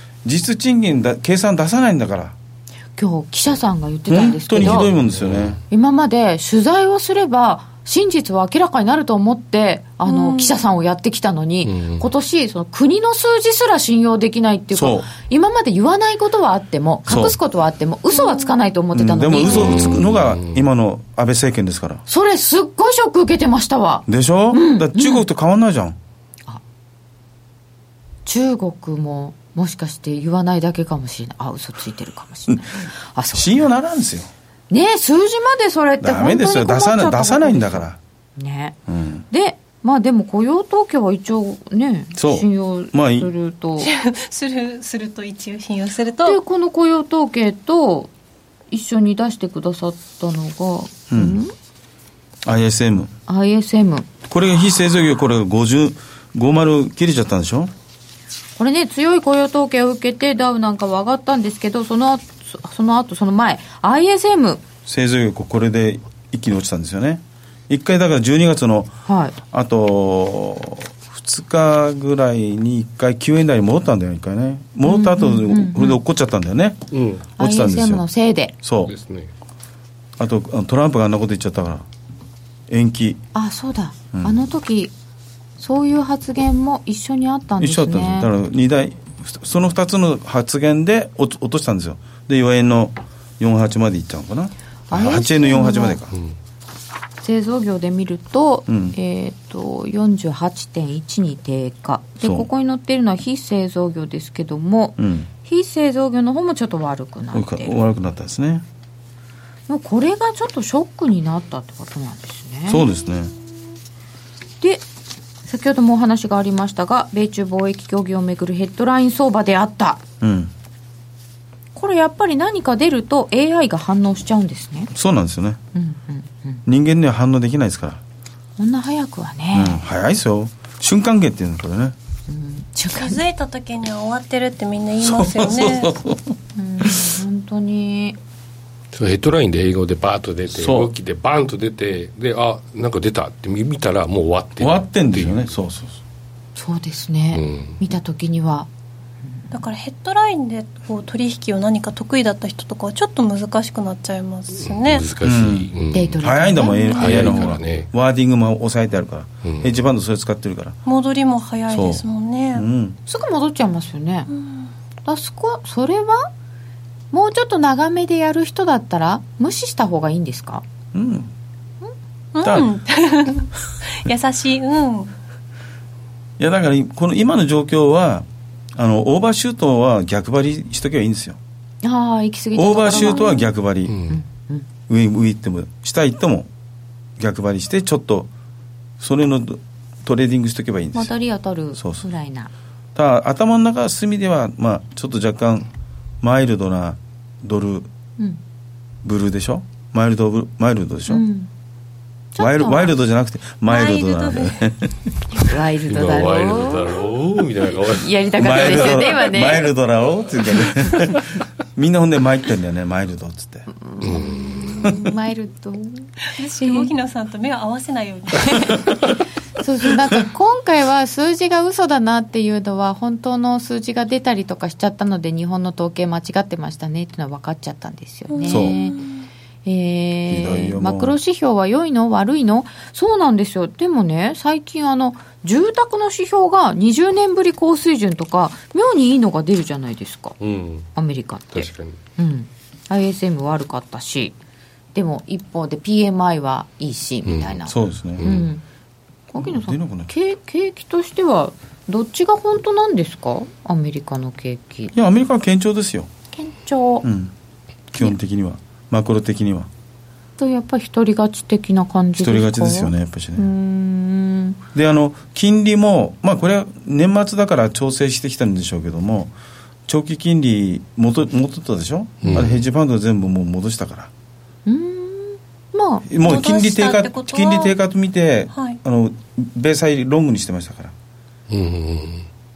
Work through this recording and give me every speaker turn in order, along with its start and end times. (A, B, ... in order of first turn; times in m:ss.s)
0:00.2-0:02.3 A
0:03.0-0:04.9 B
0:04.1-0:05.6 A
0:04.6-0:05.6 C
0:05.7-0:20.0 B
0:10.0-0:10.5 D
0:11.6-0:12.0 C
0:14.7-0:15.1 A
0:17.1-0:17.4 A
0:18.2-0:18.5 D
0:18.9-0:22.0 A
0:19.5-0:20.6 C
0:22.1-0:25.2 B
0:24.1-0:26.0 A
0:28.2-0:33.7 B
0:33.3-0:34.3 A
0:34.7-0:37.8 B
0:36.0-0:38.0 A
0:38.4-0:38.8 B
0:38.9-0:39.2 A
0:39.3-0:43.9 B
0:42.2-0:43.3 A
0:43.8-0:46.4 D
0:46.2-0:48.1 B
0:48.7-0:51.5 B
0:51.1-0:51.4 A
0:52.4-0:53.1 A
0:53.3-0:54.1 B
0:54.3-0:57.7 A
0:58.6-1:04.6 B
1:04.8-1:08.9 A
1:09.0-1:09.4 B
1:09.5-1:16.8 A
1:14.8-1:16.0 B
1:16.9-1:17.2 C
1:17.4-1:18.0 A
1:17.4-1:18.5 B
1:18.6-1:18.9 A
1:18.9-1:19.3 C
1:20.2-1:21.8 A
1:22.7-1:23.2 A
1:23.3-1:24.9 B
1:24.1-1:24.4 A
1:25.6-1:28.3 B
1:27.6-1:36.2 A
1:34.9-1:36.0 B
1:37.2-1:47.7 B
1:38.7-1:38.9 A
1:42.2-1:42.5 A
1:45.0-1:45.3 A
1:47.3-1:48.6 A
1:49.7-1:52.9 B
1:52.7-1:53.3 A
1:55.4-2:00.0 B
2:00.2-2:00.5 A
2:01.7-2:04.9 B
2:04.9-2:05.6 A
2:05.7-2:06.6 B
2:06.6-2:08.0 A
2:08.6-2:09.8 B
2:09.5-2:11.9 A
2:12.3-2:13.2 B
2:12.9-2:16.0 D
2:15.0-2:17.0 A
2:16.6-2:18.2 B
2:18.9-2:25.5 C
2:20.5-2:20.9 A
2:24.6-2:26.0 A
2:26.5-2:28.7 B
2:27.3-2:27.7 C
2:29.5-2:35.1 D
2:34.6-2:36.2 C
2:35.2-2:40.8 A
2:35.9-2:37.5 B
2:36.9-2:37.9 C
2:39.4-2:39.7 C
2:40.8-2:42.7 D
2:41.7-2:43.0 A
2:43.1-2:44.3 B
2:44.3-2:44.7 D
2:45.0-2:46.3 B
2:47.1-2:50.6 B
2:50.9-2:51.3 A
2:52.3-2:55.1 D
2:52.4-2:52.7 A
2:56.4-3:01.4 A
3:01.8-3:03.5 B
3:02.6-3:04.0 A
3:03.9-3:04.2 C
3:04.1-3:04.6 B
3:04.9-3:06.5 A
3:07.2-3:08.3 A
3:09.0-3:11.1 A
3:10.9-3:12.5 B
3:11.8-3:12.0 A
3:12.9-3:15.7 A
3:16.2-3:17.9 A
3:19.0-3:21.2 A
3:21.1-3:21.5 B
3:22.3-3:22.9 B
3:22.4-3:25.0 A
3:23.7-3:24.6 D
3:25.4-3:27.0 B
3:25.8-3:28.1 C
3:28.0-3:29.7 B
3:28.4-3:33.7 A
3:33.7-3:36.9 B
3:34.0-3:34.8 C
3:36.4-3:38.8 D
3:39.6-3:49.0 B
3:48.3-3:49.2 D
3:48.5-3:48.8 A
3:49.6-4:00.4 B
3:50.3-3:51.2 A
4:00.4-4:00.9 C
4:00.9-4:04.3 B
4:01.5-4:02.0 C
4:04.9-4:08.6 B
4:07.2-4:07.6 C
4:07.7-4:08.4 A
4:08.2-4:08.5 C
4:09.3-4:14.9 B
4:09.4-4:10.1 A
4:14.9-4:16.1 A
4:16.3-4:17.1 B
4:17.0-4:17.3 A
4:17.9-4:19.7 A
4:20.4-4:24.6 B
4:22.2-4:23.4 A
4:24.7-4:29.3 A
4:29.9-4:34.1 A
4:32.2-4:32.6 C
4:34.6-4:36.0 B
4:36.1-4:40.9 A
4:36.2-4:37.8 D
4:38.5-4:38.8 D
4:41.5-4:42.2 C